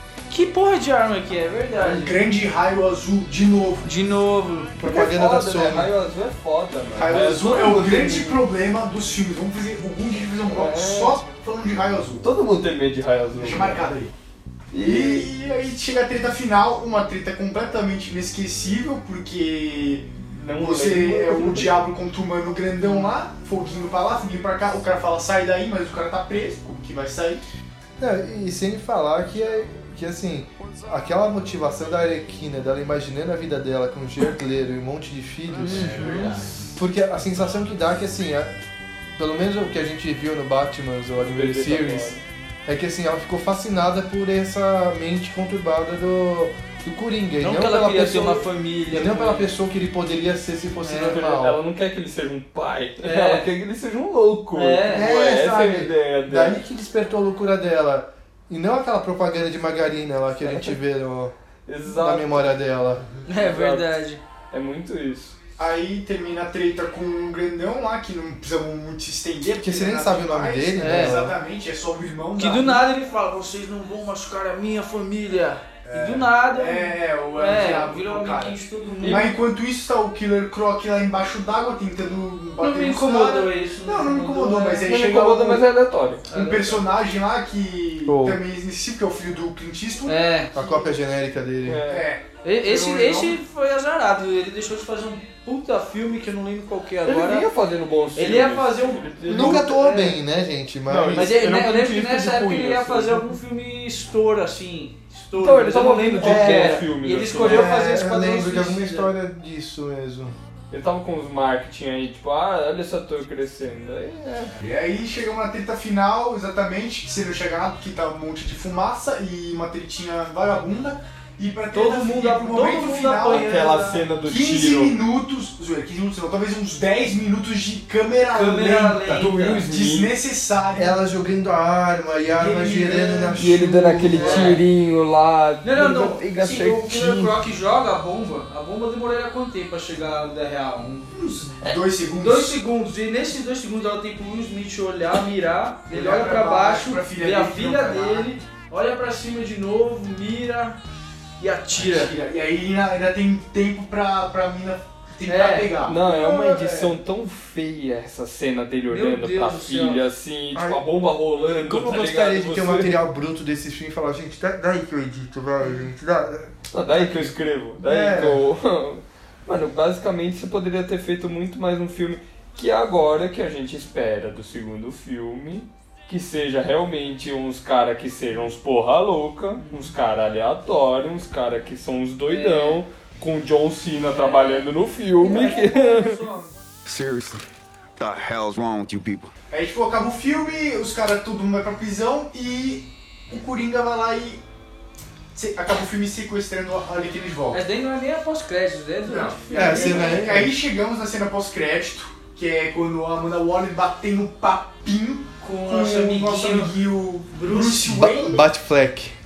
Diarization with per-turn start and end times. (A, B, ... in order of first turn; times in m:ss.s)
0:00.3-0:02.2 A
0:01.8-0:03.9 B
0:03.8-0:04.7 A
0:04.8-0:05.9 C
0:04.8-0:08.4 D
0:06.9-0:12.2 B
0:10.5-0:11.2 D
0:12.2-0:13.9 D
0:13.3-0:14.1 B
0:14.7-0:15.3 D
0:14.8-0:27.4 B
0:20.3-0:21.7 D
0:28.0-0:36.1 C
0:35.6-0:36.5 B
0:35.6-0:36.5 D
0:36.0-0:36.3 A
0:36.8-0:38.5 C
0:39.2-0:42.2 C
0:41.2-0:42.2 D
0:42.7-0:51.6 C
0:47.4-0:49.5 A
0:50.8-0:51.1 A
0:50.9-0:56.6 D
0:53.0-0:53.4 A
0:54.5-0:55.0 A
0:54.9-1:01.3 C
1:00.4-1:00.8 D
1:01.7-1:02.5 D
1:01.8-1:03.0 C
1:03.2-1:04.2 A
1:03.3-1:03.9 D
1:04.5-1:05.3 D
1:05.6-1:12.8 B
1:09.6-1:11.4 C
1:10.8-1:11.2 A
1:12.4-1:19.3 A
1:15.8-1:25.6 B
1:19.0-1:19.3 D
1:22.6-1:24.9 A
1:24.8-1:26.3 D
1:26.3-1:26.8 A
1:26.3-1:30.2 B
1:28.0-1:28.4 C
1:30.0-1:30.6 A
1:30.5-1:31.8 C
1:31.6-1:32.1 D
1:31.9-1:33.4 B
1:32.4-1:37.5 A
1:37.0-1:39.6 D
1:38.2-1:40.2 A
1:39.2-1:41.3 C
1:40.9-1:43.3 D
1:41.1-1:49.1 A
1:45.4-1:47.7 D
1:46.2-1:46.8 C
1:47.4-1:50.4 C
1:50.7-1:54.5 D
1:54.6-2:03.5 B
2:01.7-2:04.0 A
2:03.3-2:05.0 D
2:04.2-2:11.0 B
2:08.3-2:09.6 A
2:09.1-2:10.1 D
2:10.8-2:14.6 C
2:12.3-2:13.5 B
2:13.4-2:17.4 D
2:14.2-2:14.6 A
2:14.2-2:14.6 B
2:15.6-2:21.0 A
2:21.0-2:22.6 B
2:22.2-2:30.8 A
2:25.9-2:28.3 B
2:31.4-2:32.1 A
2:31.7-2:36.9 B
2:35.2-2:35.7 A
2:35.8-2:43.0 D
2:38.9-2:40.0 A
2:40.5-2:40.8 C
2:41.6-2:48.4 C
2:46.7-3:06.2 D
3:02.3-3:02.8 A
3:04.1-3:04.7 A
3:05.2-3:06.5 A
3:06.8-3:07.4 E
3:08.0-3:09.3 E
3:09.5-3:14.4 B
3:15.3-3:17.6 B
3:17.5-3:20.2 A
3:19.0-3:28.4 B
3:19.5-3:20.5 C
3:25.4-3:26.7 A
3:27.3-3:28.4 A
3:28.3-3:29.2 C